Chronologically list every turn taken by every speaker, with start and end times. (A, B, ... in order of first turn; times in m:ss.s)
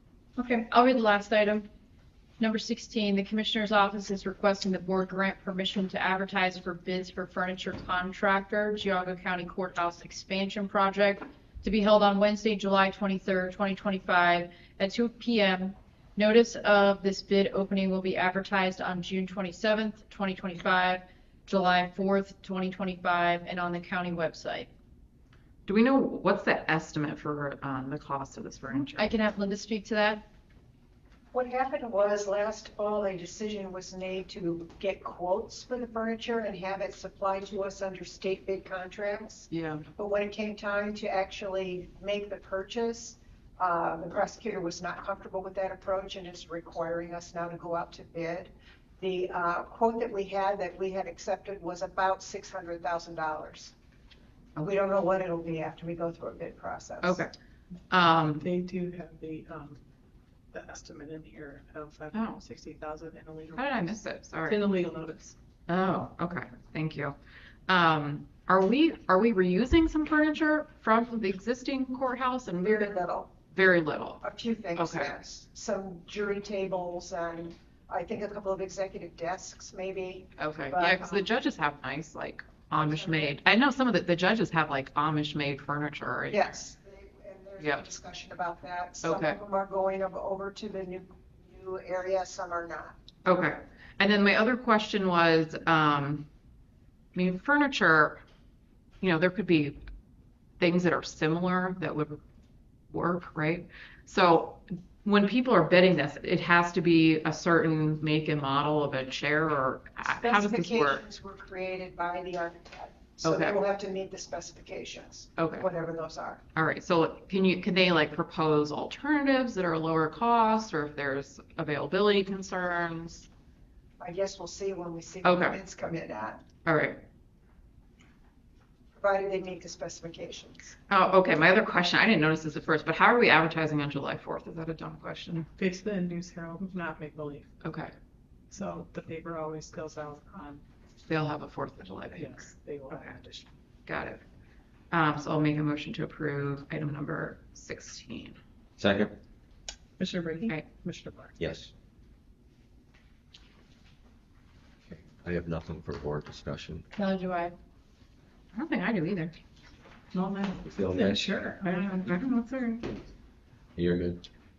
0:00.4-0:01.7 A
0:02.4-0:24.7 A
0:25.7-0:29.1 B
0:28.9-0:30.2 A
0:31.3-0:53.7 C
0:39.5-0:39.9 B
0:54.6-0:57.2 C
0:57.0-0:57.3 B
0:57.9-0:58.5 B
0:58.4-0:59.8 D
1:00.5-1:03.9 D
1:02.1-1:02.4 B
1:03.6-1:04.7 B
1:04.4-1:05.4 D
1:05.7-1:07.2 B
1:07.7-1:14.2 B
1:12.6-1:13.3 C
1:14.2-1:21.2 C
1:14.8-1:15.1 B
1:20.4-1:26.5 B
1:22.7-1:23.4 C
1:26.3-1:33.0 C
1:27.6-1:27.9 B
1:29.0-1:29.4 B
1:33.2-1:36.3 B
1:37.2-1:38.2 B
1:39.0-1:39.8 B
1:40.6-1:42.2 B
1:42.9-1:51.0 B
1:50.0-1:56.4 C
1:53.2-1:53.6 B
1:55.4-1:55.7 B
1:56.6-2:03.3 B
2:04.0-2:06.4 C
2:05.2-2:05.6 B
2:06.6-2:07.0 B
2:09.0-2:10.8 C
2:10.9-2:15.5 B
2:15.6-2:17.5 D
2:17.6-2:17.9 B
2:18.5-2:20.6 D
2:21.1-2:23.0 B
2:22.1-2:23.5 D
2:23.9-2:24.2 B
2:24.9-2:28.4 B
2:28.8-2:29.2 E
2:30.0-2:31.5 D
2:31.4-2:31.7 E
2:35.0-2:36.8 E
2:36.9-2:37.6 A
2:38.5-2:39.4 B
2:40.1-2:42.2 D
2:40.6-2:41.3 E
2:41.6-2:42.9 B
2:43.8-2:44.3 E